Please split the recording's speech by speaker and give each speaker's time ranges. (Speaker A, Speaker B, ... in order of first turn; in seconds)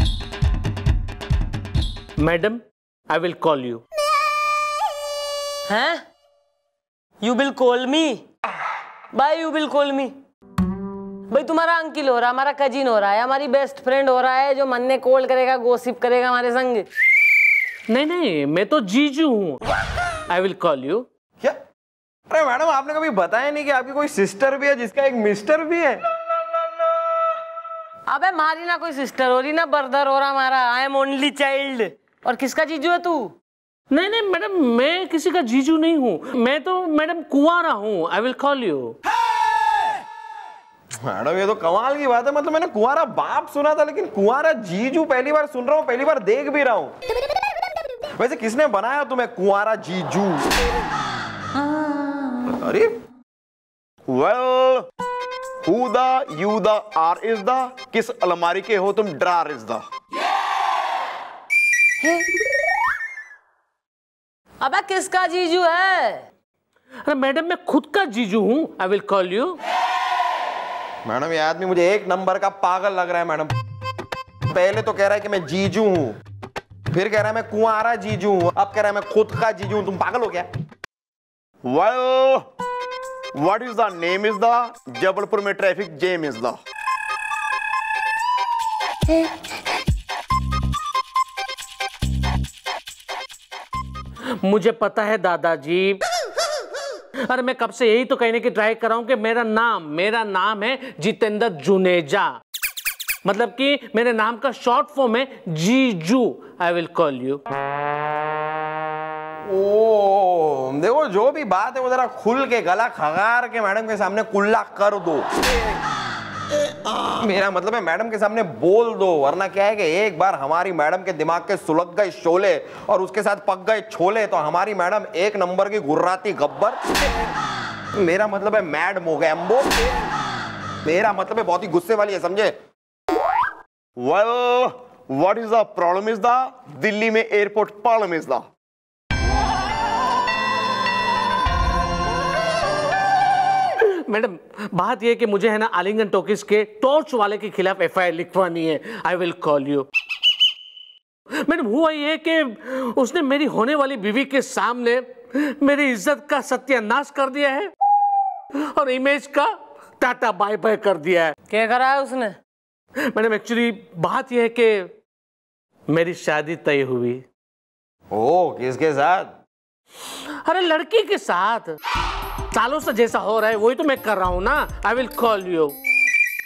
Speaker A: 2.2-3.8, 17.9-19.6, 20.3-21.1, 33.9-39.0, 67.1-69.6, 94.4-96.0, 97.3-102.3, 103.2-107.4, 143.8-149.9, 151.4-157.7, 158.7-161.3, 163.1-164.9, 165.9-167.2, 170.4-171.7, 172.5-175.8
Speaker B: 5.7-6.0, 7.2-8.2, 9.1-10.1, 11.3-16.9, 28.1-33.3, 64.6-66.2, 161.5-162.4
Speaker C: 22.3-26.0, 41.0-46.9, 48.2-50.5, 52.5-52.9, 71.1-73.5, 74.5-76.2, 76.9-80.5, 109.5-115.5, 116.9-127.3, 128.0-129.8, 130.8-132.5, 168.1-169.3
Speaker D: 54.1-54.9, 55.6-59.8, 81.6-82.5, 83.4-86.6, 134.0-138.4